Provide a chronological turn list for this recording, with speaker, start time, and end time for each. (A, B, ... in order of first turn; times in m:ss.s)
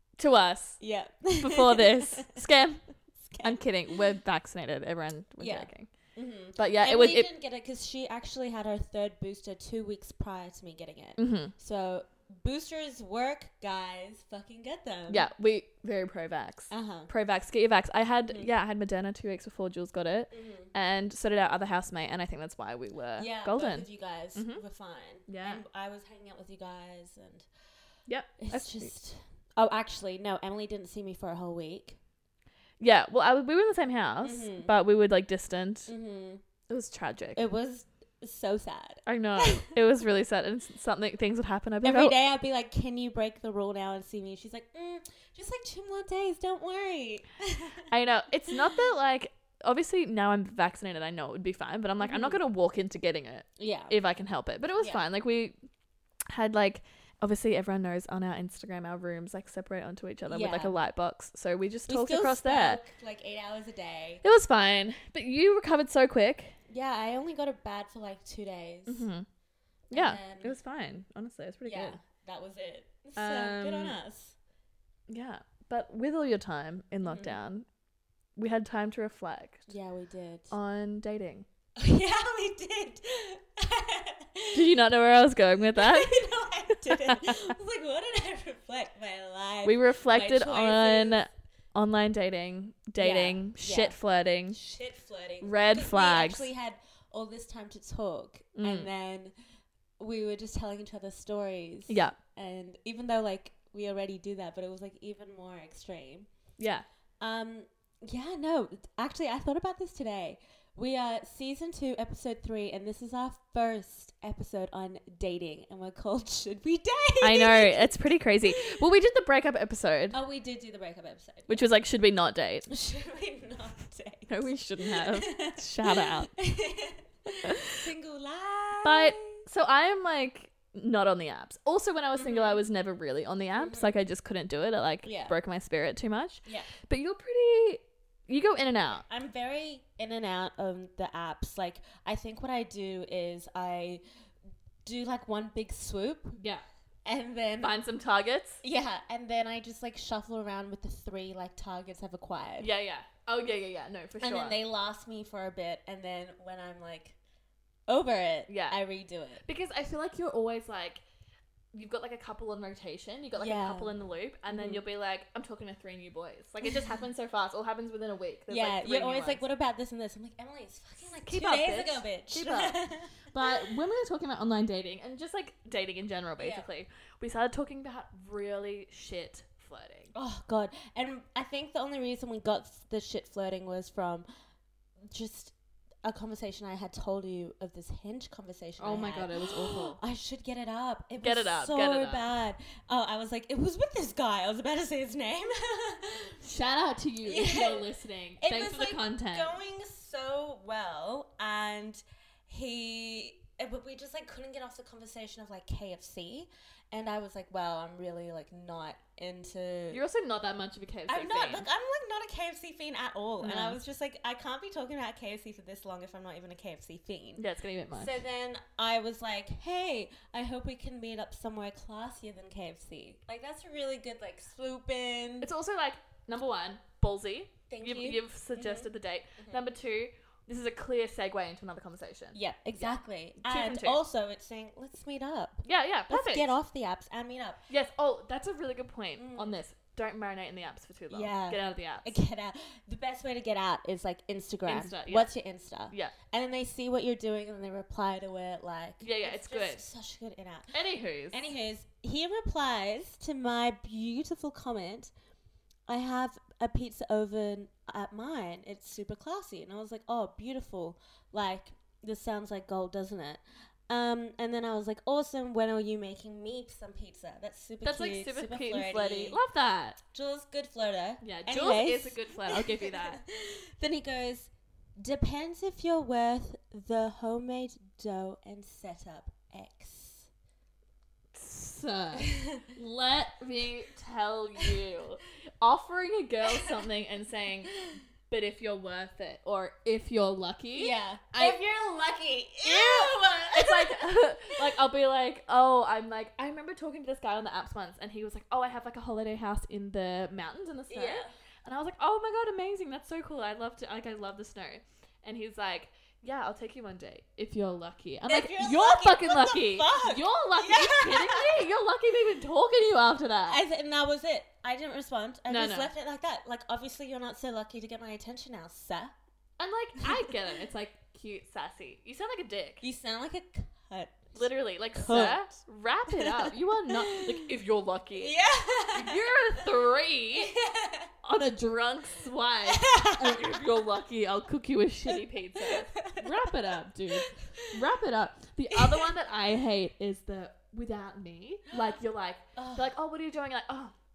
0:00.2-0:00.8 A
0:00.8-0:02.4 B
0:01.4-0:02.8 A
0:03.2-0:04.0 B
0:03.4-0:05.9 A
0:05.4-0:15.3 B
0:06.6-0:07.3 A
0:11.2-0:11.5 A
0:15.1-0:24.6 A
0:16.7-0:17.1 B
0:20.3-0:20.7 B
0:23.2-0:27.5 B
0:25.3-0:25.6 A
0:28.1-0:28.9 A
0:28.4-0:32.0 B
0:32.8-0:35.9 A
0:34.2-0:34.7 B
0:35.9-0:36.4 B
0:36.7-0:37.4 A
0:37.4-0:39.7 B
0:39.1-0:42.2 A
0:41.8-0:47.9 B
0:47.9-0:55.6 A
0:52.0-0:52.4 B
0:53.6-0:53.9 B
0:56.3-1:02.8 A
1:00.3-1:00.8 B
1:01.9-1:04.2 B
1:04.2-1:06.6 A
1:06.7-1:09.1 B
1:08.9-1:09.3 A
1:09.9-1:12.0 A
1:09.9-1:10.5 B
1:11.7-1:14.4 B
1:13.2-1:14.0 A
1:15.1-1:17.7 A
1:17.0-1:17.4 B
1:18.4-1:19.7 A
1:19.7-1:20.5 B
1:20.5-1:21.5 A
1:21.8-1:24.6 B
1:24.5-1:27.5 A
1:25.7-1:31.3 B
1:29.6-1:34.6 A
1:33.0-1:34.0 B
1:34.5-1:39.3 B
1:35.4-1:36.5 A
1:38.6-1:38.9 A
1:40.0-1:46.3 B
1:41.9-1:42.2 A
1:46.6-1:46.9 A
1:47.2-1:57.9 B
1:57.2-2:00.2 A
1:58.5-1:58.8 B
2:00.1-2:01.7 B
2:01.5-2:02.7 A
2:02.7-2:04.3 B
2:04.3-2:06.3 A
2:04.8-2:09.4 B
2:07.4-2:07.8 A
2:08.8-2:19.0 A
2:12.2-2:12.6 B
2:13.6-2:13.9 B
2:15.0-2:15.3 B
2:19.1-2:24.0 B
2:24.8-2:26.4 B
2:26.4-2:26.6 A
2:27.0-2:27.8 B
2:27.6-2:28.6 A
2:28.6-2:32.7 B
2:32.6-2:34.6 A
2:34.2-2:37.2 B
2:37.9-2:39.4 B
2:38.5-2:38.8 A
2:39.4-2:41.0 A
2:41.7-2:49.4 A
2:43.4-2:43.9 B
2:44.5-2:44.8 B
2:48.5-2:53.7 B
2:51.2-2:52.8 A
2:53.3-3:00.1 A
2:56.4-2:56.6 B
3:00.1-3:04.2 B
3:05.1-3:05.5 B
3:06.0-3:16.4 B
3:08.8-3:10.0 A
3:11.2-3:12.3 A
3:16.4-3:19.5 A
3:17.2-3:17.9 B
3:18.4-3:30.0 B
3:29.9-3:31.6 A
3:31.1-3:37.4 B
3:33.4-3:33.8 A
3:37.4-3:38.2 A
3:37.9-3:45.5 B
3:45.4-3:54.0 A
3:47.7-3:49.6 B
3:52.3-3:57.6 B
3:55.6-3:56.5 A
3:57.7-4:02.2 A
3:59.2-3:59.6 B
4:01.1-4:10.8 B
4:04.7-4:05.3 A
4:09.0-4:09.8 A
4:10.7-4:11.5 A
4:11.3-4:15.1 B
4:15.9-4:29.4 B
4:27.8-4:30.0 A
4:30.1-4:40.3 B
4:31.2-4:33.2 A
4:41.3-4:47.7 A
4:42.2-4:42.6 B
4:48.3-4:51.6 A
4:50.8-4:54.6 B
4:52.6-5:13.6 A
5:00.9-5:01.3 B
5:08.3-5:11.7 B
5:13.5-5:19.1 B
5:15.5-5:15.9 A
5:19.6-5:22.8 A
5:22.8-5:25.5 B
5:24.4-5:28.3 A
5:26.1-5:27.5 B
5:28.2-5:29.7 B
5:28.9-5:30.5 A
5:30.4-5:31.1 B
5:31.2-5:43.9 A
5:32.7-5:33.6 B
5:35.1-5:36.6 B
5:37.2-5:37.8 B
5:38.7-5:39.1 B
5:42.6-5:42.9 B